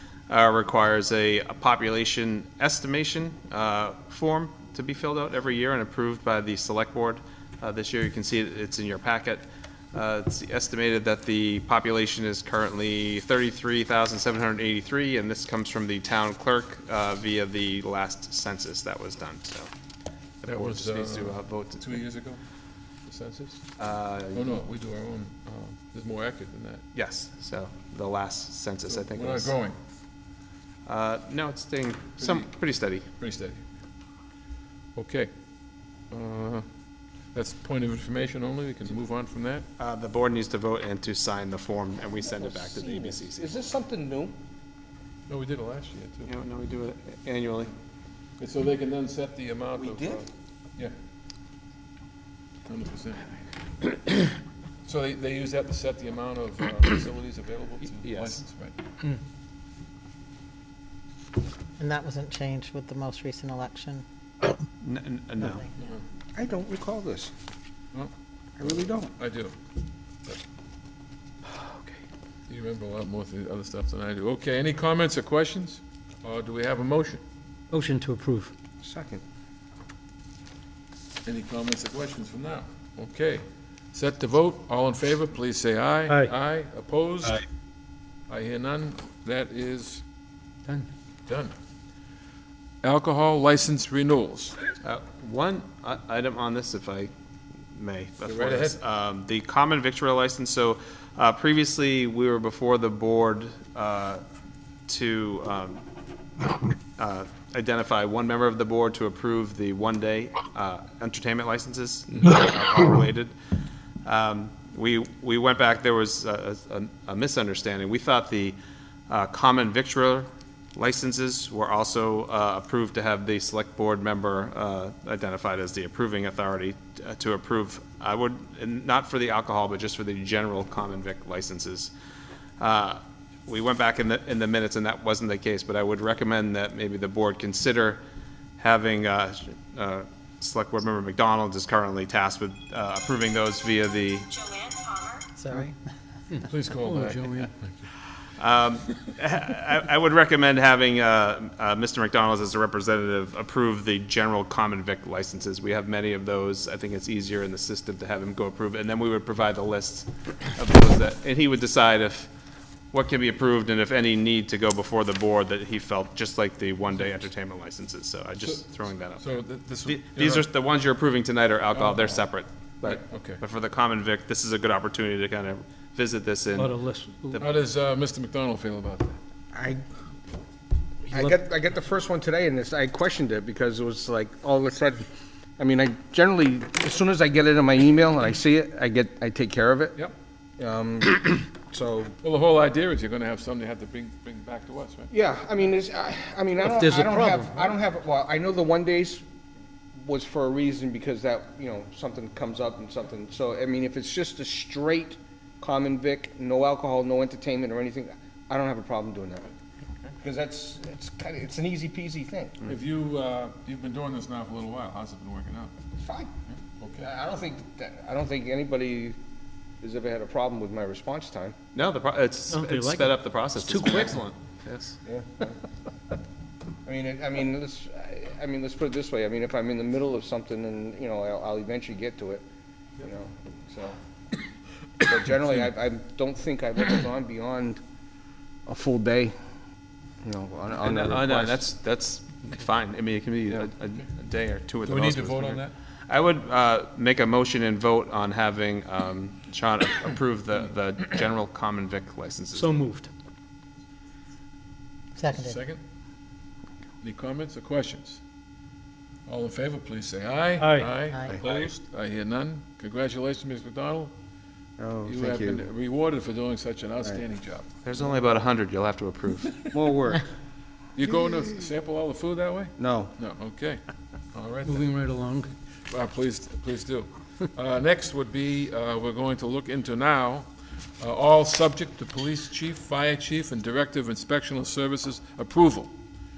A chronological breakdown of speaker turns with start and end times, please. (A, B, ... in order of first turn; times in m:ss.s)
0:00.3-0:19.7 A
0:20.4-0:21.8 A
0:20.4-0:22.4 B
0:23.0-0:23.7 B
0:23.8-0:24.6 A
0:24.3-0:26.8 B
0:26.9-0:29.5 A
0:28.9-0:29.8 B
0:30.8-0:33.0 A
0:32.2-0:32.5 B
0:33.2-0:33.7 B
0:34.9-0:35.3 B
0:36.1-0:36.6 B
0:37.3-0:39.6 B
0:39.8-0:43.5 A
0:42.4-0:44.3 C
0:45.3-0:46.3 B
0:46.2-0:47.7 A
0:48.4-0:50.2 B
0:49.8-0:50.2 C
0:52.7-0:53.3 B
0:54.8-0:58.8 B
0:58.0-0:58.4 A
1:01.8-1:04.5 D
1:04.8-1:05.6 A
1:05.8-1:06.0 B
1:06.3-1:07.3 C
1:07.9-1:09.6 B
1:08.6-1:09.1 C
1:11.6-1:11.9 E
1:12.5-1:17.2 B
1:17.7-1:18.5 E
1:18.8-1:19.2 C
1:21.2-1:27.4 B
1:26.1-1:26.3 E
1:28.3-1:30.0 B
1:31.2-1:31.5 B
1:32.8-1:34.6 B
1:34.8-1:37.1 A
1:37.7-1:44.2 A
1:38.2-1:38.8 B
1:44.9-1:45.8 A
1:46.5-1:53.3 A
1:54.0-1:58.6 A
1:59.1-2:11.9 A
2:12.6-2:18.0 A
2:18.6-2:24.4 A
2:25.4-2:25.7 D
2:26.3-2:27.7 B
2:26.8-2:27.5 E
2:28.4-2:42.3 A
2:42.9-2:56.8 A
2:49.2-2:50.5 B
2:51.7-2:52.2 B
2:52.8-2:53.4 B
2:56.5-2:57.4 E
2:57.4-2:59.2 B
2:59.5-2:59.8 C
3:01.1-3:05.0 C
3:01.1-3:01.3 E
3:05.6-3:10.0 C
3:10.6-3:12.1 C
3:12.2-3:15.1 B
3:15.1-3:19.2 C
3:16.6-3:17.7 E
3:20.0-3:29.5 C
3:30.2-3:32.7 C
3:32.7-3:35.7 B
3:36.0-3:36.3 C
3:36.5-3:37.1 B
3:37.0-3:39.2 C
3:39.8-3:41.5 C
3:41.7-3:45.0 A
3:42.5-3:44.2 E
3:45.0-3:45.6 C
3:46.8-3:52.4 C
3:53.0-3:54.0 C
3:55.0-3:57.8 C
3:58.6-3:59.3 C
4:00.2-4:01.6 C
4:00.8-4:12.7 A
4:04.8-4:05.7 B
4:12.5-4:13.1 E
4:15.2-4:15.6 D
4:15.3-4:15.8 B
4:17.0-4:18.2 B
4:19.3-4:24.1 B
4:20.6-4:21.0 E
4:21.1-4:21.4 D
4:24.8-4:25.7 C
4:25.0-4:27.7 B
4:27.8-4:29.6 A
4:29.7-4:30.2 C
4:31.0-4:33.8 B
4:32.8-4:33.1 C
4:34.3-4:35.0 B
4:34.6-4:35.5 E
4:35.9-4:40.5 B
4:41.0-4:45.9 B